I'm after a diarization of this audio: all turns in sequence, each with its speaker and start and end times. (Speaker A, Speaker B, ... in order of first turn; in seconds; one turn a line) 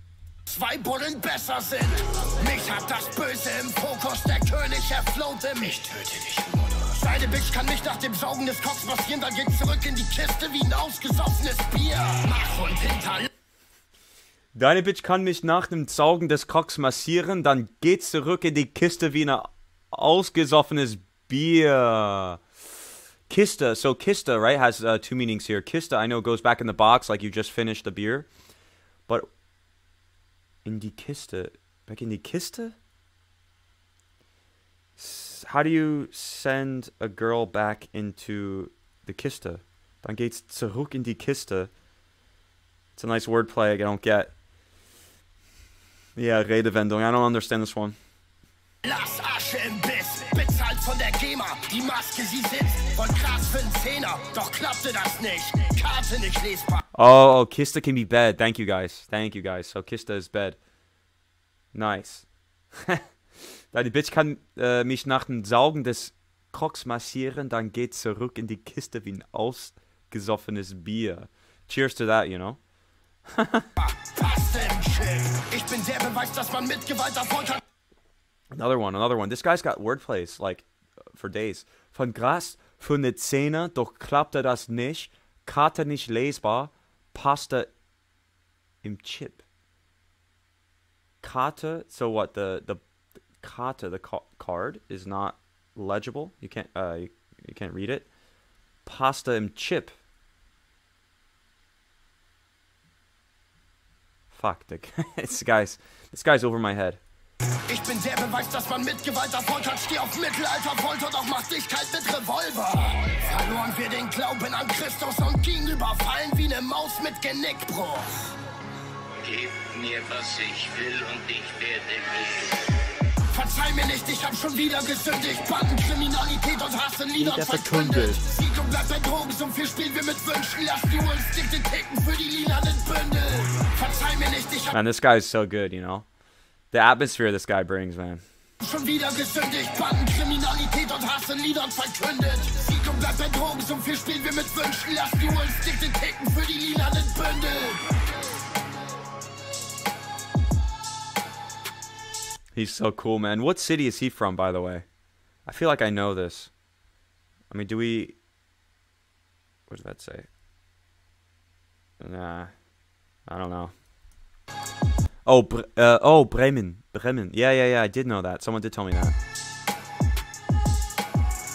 Speaker A: 0.5-13.3
Speaker B: 14.5-22.4
Speaker B: 23.3-28.3
Speaker B: 30.6-32.7
Speaker B: 35.0-41.7
Speaker B: 42.9-44.3
Speaker B: 46.2-48.0
Speaker A: 48.8-56.8
Speaker B: 56.9-60.6
Speaker B: 61.7-63.0
Speaker B: 63.7-72.6
Speaker B: 73.3-73.7
Speaker A: 73.8-77.6
Speaker B: 78.5-87.7
Speaker B: 88.8-89.4
Speaker B: 91.2-92.8
Speaker B: 93.4-98.1
Speaker B: 98.8-99.9
Speaker B: 104.3-107.0
Speaker A: 107.7-118.3
Speaker C: 119.2-122.7
Speaker A: 123.2-134.7
Speaker B: 127.2-128.2
Speaker B: 134.7-136.1
Speaker B: 136.7-138.2
Speaker A: 138.6-147.9
Speaker B: 152.5-154.8
Speaker B: 155.4-156.5
Speaker B: 157.5-158.2
Speaker B: 159.7-160.3
Speaker B: 162.0-162.5
Speaker B: 163.3-163.7
Speaker B: 165.2-169.1